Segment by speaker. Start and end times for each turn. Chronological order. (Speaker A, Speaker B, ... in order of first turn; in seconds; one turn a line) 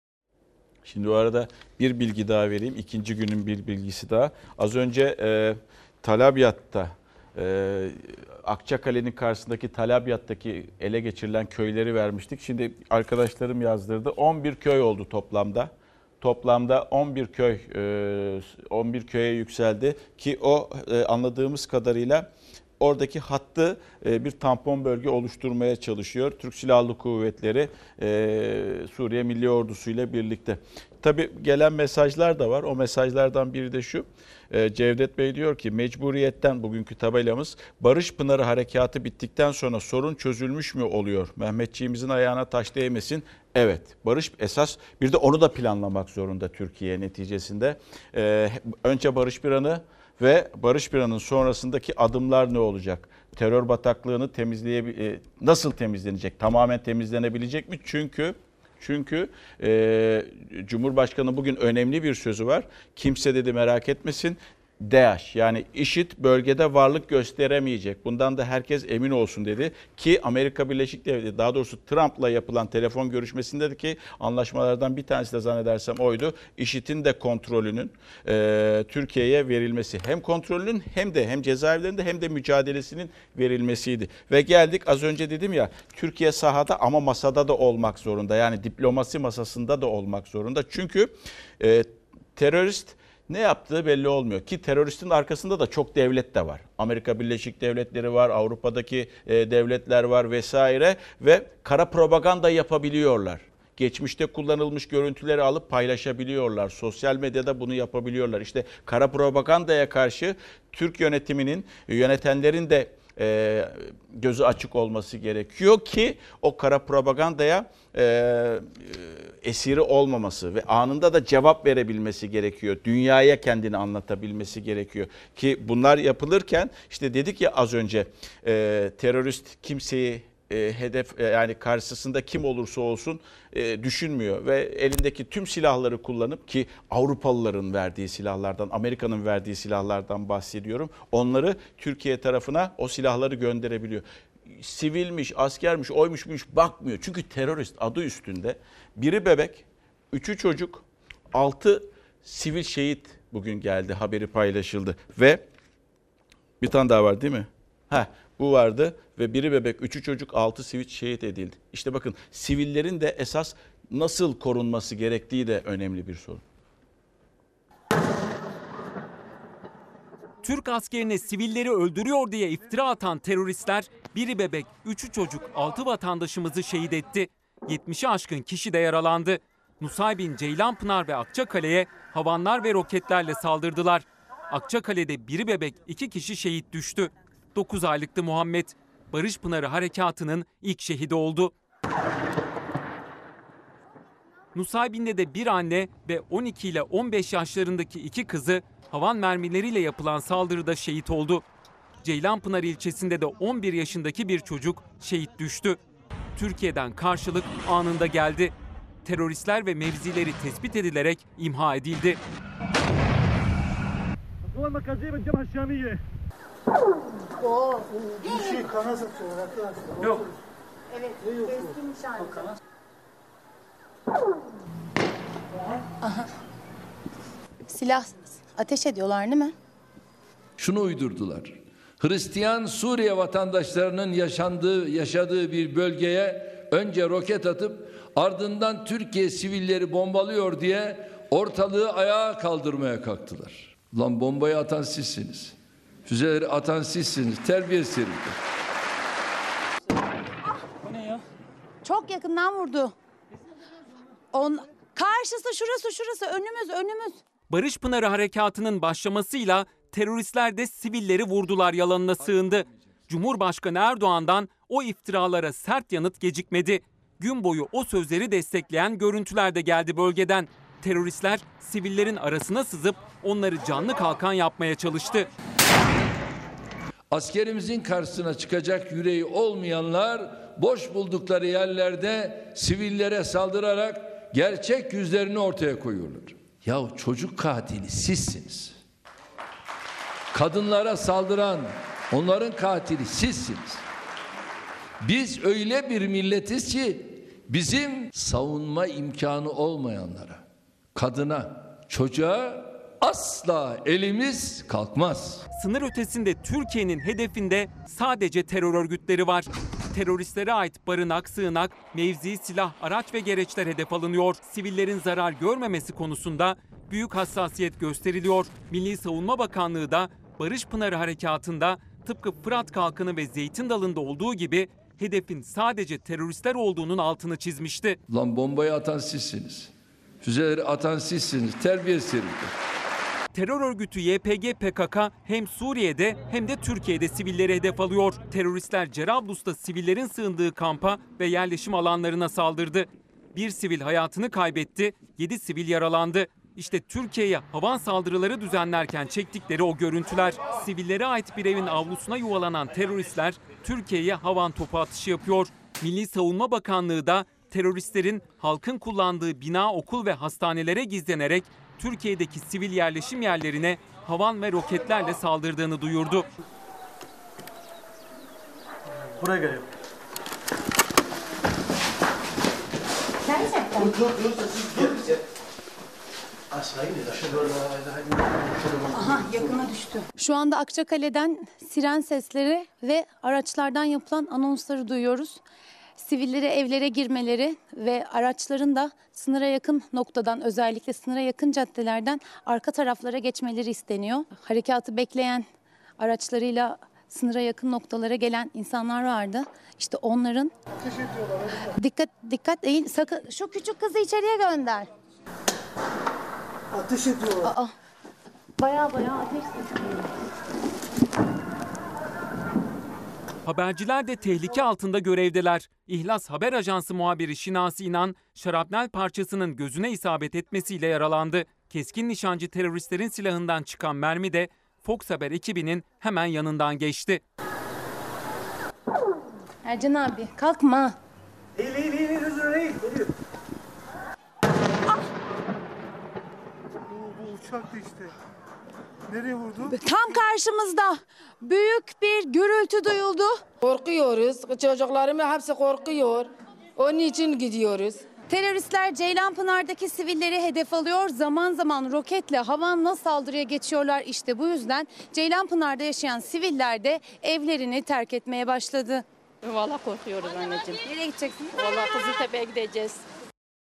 Speaker A: 0.8-155.4
Speaker A: 156.6-166.4
Speaker B: 170.4-191.5
Speaker B: 194.5-201.4
Speaker B: 202.0-205.8
Speaker B: 206.3-208.5
Speaker B: 209.0-212.2
Speaker C: 214.5-216.0
Speaker C: 218.1-220.3
Speaker D: 220.9-222.3
Speaker C: 221.3-221.7
Speaker D: 226.0-226.3
Speaker D: 227.7-229.5
Speaker E: 230.6-248.4
Speaker D: 251.8-252.9
Speaker D: 254.3-257.2
Speaker B: 257.5-275.3
Speaker E: 277.1-288.8
Speaker E: 290.3-293.8
Speaker E: 295.0-300.4
Speaker E: 300.9-305.4
Speaker B: 305.6-328.0
Speaker E: 328.1-332.5
Speaker B: 333.3-366.2
Speaker C: 369.2-369.6
Speaker D: 373.3-374.0
Speaker D: 378.9-385.4
Speaker D: 386.0-395.4
Speaker D: 396.0-400.5
Speaker C: 400.9-401.5
Speaker D: 401.6-404.9
Speaker C: 406.7-407.4
Speaker D: 407.4-407.7
Speaker D: 408.6-410.0
Speaker B: 413.4-427.2
Speaker D: 429.6-431.0
Speaker C: 431.6-433.1
Speaker C: 436.9-438.1
Speaker C: 439.1-439.7
Speaker D: 439.6-443.4
Speaker F: 443.6-448.0
Speaker D: 448.3-459.0
Speaker G: 459.4-460.8
Speaker D: 460.8-461.5
Speaker G: 461.5-463.0